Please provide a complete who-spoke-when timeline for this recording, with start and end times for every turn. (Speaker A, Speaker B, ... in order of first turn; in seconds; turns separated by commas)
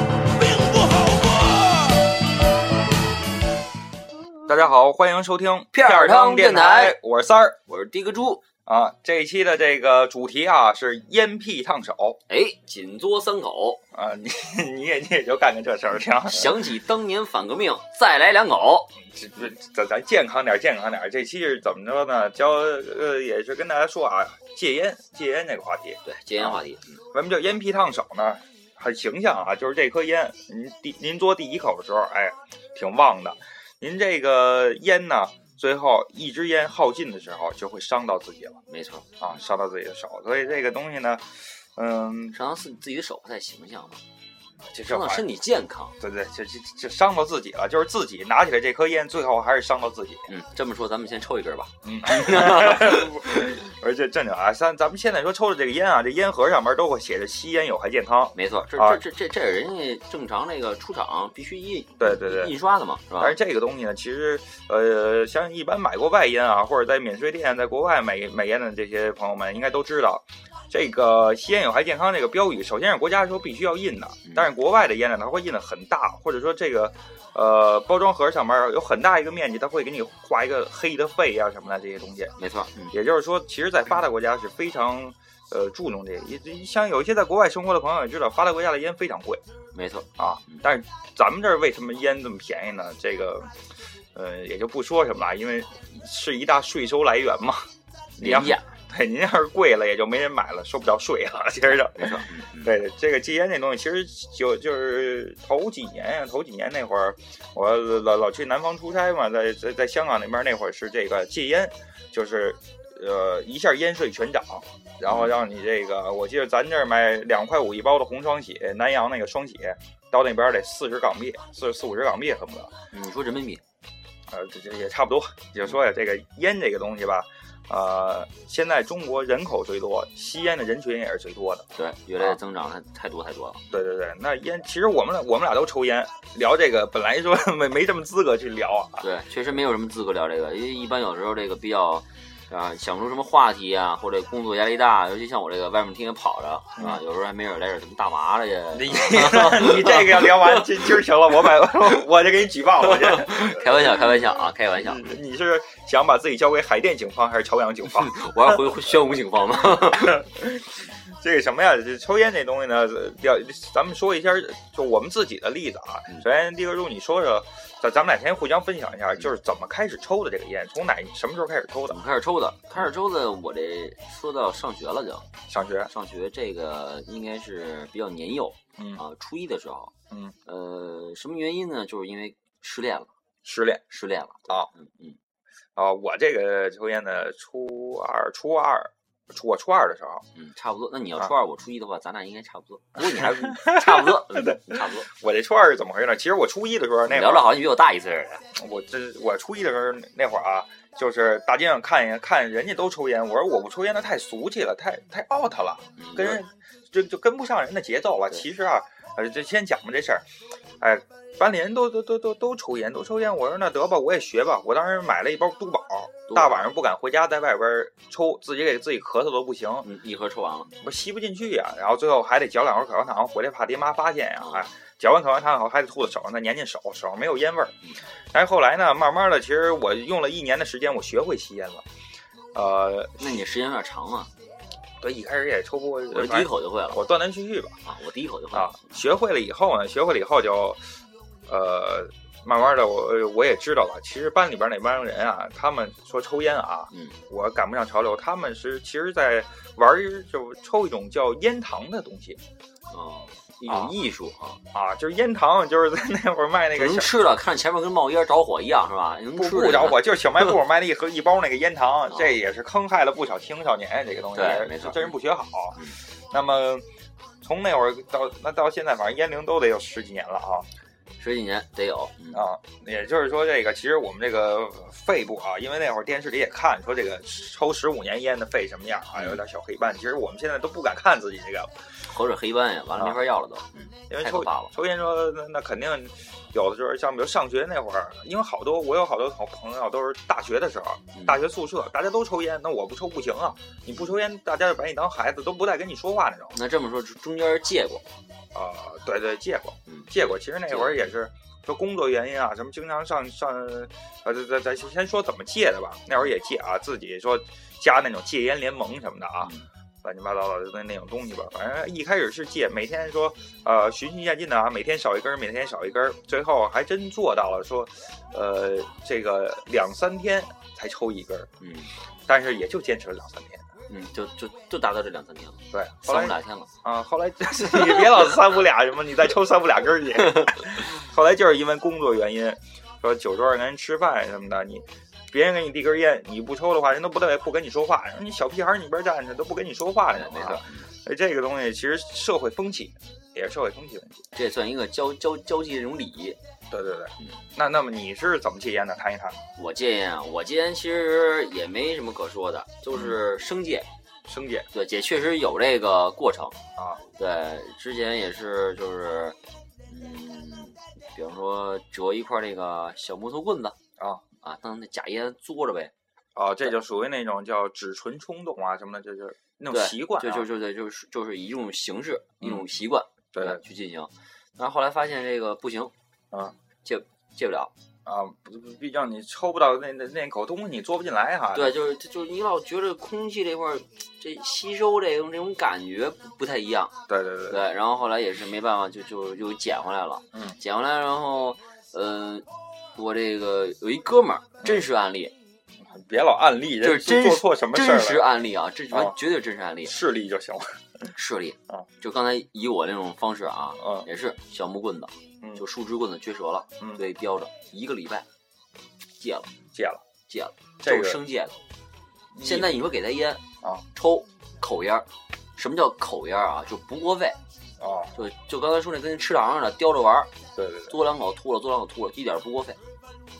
Speaker A: 0.2-2.2, Speaker B: 4.5-7.6, Speaker C: 5.7-7.0, Speaker C: 7.7-8.4, Speaker B: 8.7-12.2, Speaker C: 12.3-13.8, Speaker B: 13.9-16.6, Speaker C: 16.2-18.9, Speaker B: 19.1-26.6, Speaker C: 26.0-27.0, Speaker B: 27.1-38.6, Speaker C: 38.7-39.1, Speaker B: 39.2-42.4, Speaker C: 42.3-44.0, Speaker B: 44.7-45.3, Speaker C: 44.8-45.9, Speaker B: 46.0-50.3, Speaker C: 50.3-53.5, Speaker B: 51.8-59.0, Speaker C: 58.3-63.4, Speaker B: 62.0-62.5, Speaker B: 63.2-82.3, Speaker C: 82.4-82.9, Speaker B: 82.9-89.4, Speaker C: 89.7-90.6, Speaker B: 90.2-122.7, Speaker C: 98.2-98.7, Speaker C: 101.7-102.7, Speaker C: 115.0-115.3, Speaker C: 122.9-123.6, Speaker B: 124.3-132.4, Speaker C: 131.7-133.7, Speaker B: 133.7-139.1, Speaker C: 139.0-150.7, Speaker B: 148.7-158.9, Speaker C: 152.9-155.1, Speaker C: 157.9-160.2, Speaker B: 159.6-172.0, Speaker C: 171.9-175.2, Speaker B: 175.5-175.9, Speaker C: 175.9-179.9, Speaker B: 178.8-179.0, Speaker C: 180.4-183.1, Speaker B: 183.4-183.8, Speaker C: 183.9-185.2, Speaker B: 185.8-190.2, Speaker C: 190.3-195.1, Speaker B: 193.0-197.5, Speaker C: 197.1-198.4, Speaker B: 198.5-210.3, Speaker C: 206.0-206.4, Speaker B: 210.8-219.9, Speaker C: 216.3-216.7, Speaker C: 219.8-220.7, Speaker B: 220.8-227.8, Speaker C: 224.4-224.7, Speaker B: 228.3-231.8, Speaker B: 232.5-233.4, Speaker C: 233.2-234.3, Speaker B: 235.0-237.8, Speaker C: 236.1-237.0, Speaker C: 237.8-239.0, Speaker B: 238.5-240.8, Speaker B: 241.5-252.4, Speaker C: 246.9-247.2, Speaker C: 252.9-254.6, Speaker B: 253.7-253.9, Speaker B: 254.7-257.1, Speaker C: 256.7-260.5, Speaker B: 259.3-266.9, Speaker C: 262.1-262.3, Speaker C: 264.3-265.1, Speaker B: 267.4-270.7, Speaker C: 271.2-272.4, Speaker B: 272.3-281.9, Speaker C: 279.1-279.4, Speaker C: 282.1-284.7, Speaker B: 283.0-283.2, Speaker B: 284.1-296.6, Speaker C: 291.1-291.4, Speaker C: 296.5-298.0, Speaker B: 298.5-321.5, Speaker C: 300.7-301.0, Speaker C: 309.4-309.6, Speaker C: 321.6-321.9, Speaker B: 322.3-323.6, Speaker C: 323.9-326.7, Speaker B: 325.7-344.2, Speaker C: 340.1-340.9, Speaker C: 344.3-346.4, Speaker B: 346.7-349.4, Speaker C: 349.6-353.9, Speaker B: 354.3-354.7, Speaker C: 354.7-356.6, Speaker C: 357.1-359.4, Speaker C: 359.9-363.8, Speaker B: 364.0-364.2, Speaker C: 364.4-365.9, Speaker B: 366.3-370.5, Speaker C: 369.7-375.9, Speaker B: 373.3-373.6, Speaker C: 376.8-377.7, Speaker B: 378.0-381.8, Speaker C: 381.5-386.9, Speaker B: 387.1-387.6, Speaker C: 387.5-395.3, Speaker B: 395.8-398.3, Speaker C: 396.8-399.9, Speaker B: 399.8-401.1, Speaker C: 401.1-408.2, Speaker B: 403.8-404.1, Speaker C: 409.2-409.5, Speaker B: 409.7-410.0, Speaker C: 410.3-411.6, Speaker B: 410.8-411.2, Speaker B: 412.3-412.7, Speaker C: 412.4-417.4, Speaker B: 417.8-418.1, Speaker C: 418.1-420.3, Speaker B: 420.6-420.9, Speaker C: 420.9-422.8